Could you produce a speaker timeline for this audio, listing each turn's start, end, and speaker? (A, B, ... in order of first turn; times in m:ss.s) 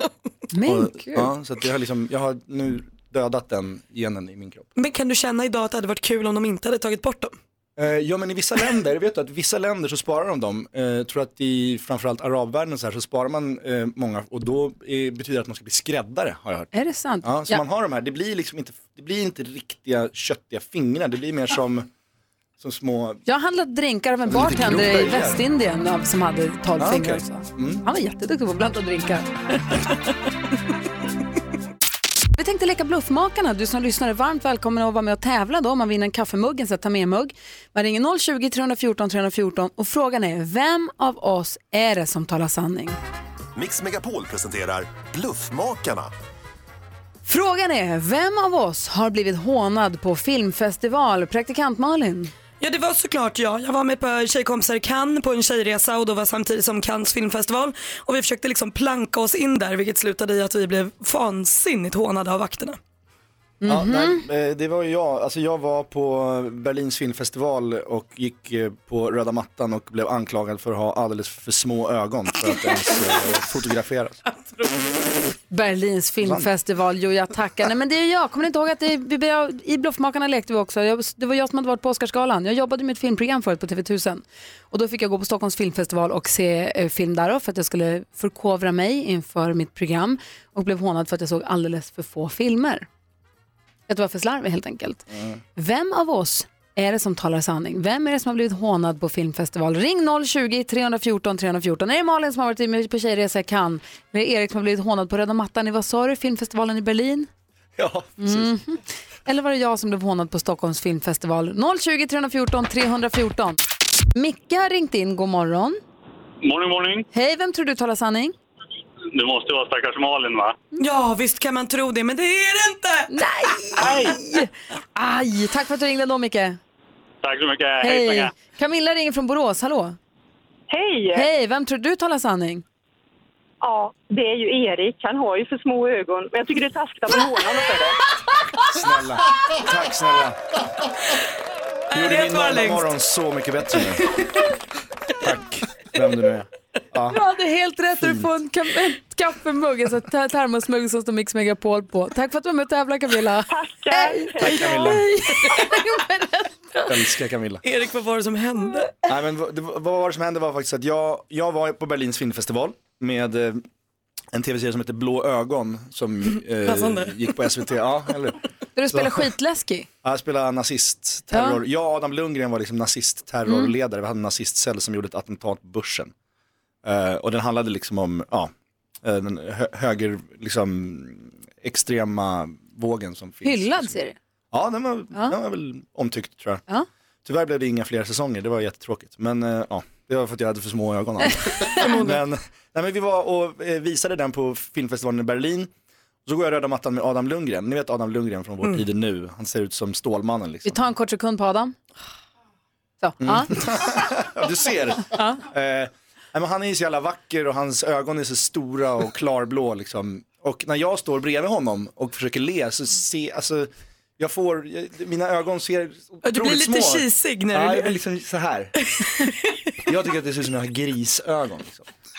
0:00.5-0:01.3 A
0:00.6-0:04.7 B
0:04.8-0:07.4 C
0:07.8-0:21.9 B
0:16.7-0:17.6 A
0:22.6-0:23.2 B
0:23.2-0:29.9 A
0:24.3-0:25.4 B
0:26.8-0:27.8 B
0:32.3-0:43.0 A
0:43.6-0:46.1 D
0:47.2-0:52.3 A
0:52.6-1:02.8 C
1:03.6-1:04.2 A
1:03.6-1:14.2 B
1:15.5-1:32.9 A
1:16.2-1:16.5 B
1:33.9-1:47.3 A
1:35.1-1:35.4 B
1:47.8-1:48.6 B
1:48.2-1:53.6 A
1:54.1-1:55.8 A
1:56.4-1:57.1 E
1:57.1-1:58.3 A
1:59.1-2:00.6 E
2:00.8-2:03.2 C
2:03.1-2:06.6 A
2:03.8-2:04.1 E
2:07.2-2:08.3 E
2:07.8-2:10.0 A
2:10.7-2:11.2 F
2:11.1-2:12.6 A
2:13.6-2:17.9 F
2:18.6-2:20.4 B
2:21.9-2:22.9 C
2:21.9-2:24.1 B
2:25.2-2:27.2 B
2:27.1-2:36.5 A
2:27.9-2:28.3 B
2:33.5-2:34.6 F
2:34.4-2:35.1 B
2:36.9-2:37.6 B
2:37.6-2:39.0 C
2:39.1-2:43.6 B
2:44.3-2:48.4 B
2:46.6-2:47.3 C
2:48.8-2:49.9 A
2:48.9-2:49.3 B
2:50.0-2:56.1 B
2:51.3-2:51.6 A
2:53.4-2:53.7 A
2:56.8-2:58.5 B
2:59.0-3:04.0 B
3:03.4-3:04.2 A
3:04.5-3:06.6 B
3:07.2-3:15.7 B
3:11.7-3:12.2 C
3:16.2-3:20.8 B
3:20.6-3:21.7 A
3:23.0-3:23.6 A
3:23.2-3:38.7 B
3:25.1-3:25.4 A
3:36.2-3:38.0 C
3:38.8-3:39.7 C
3:39.9-3:41.9 B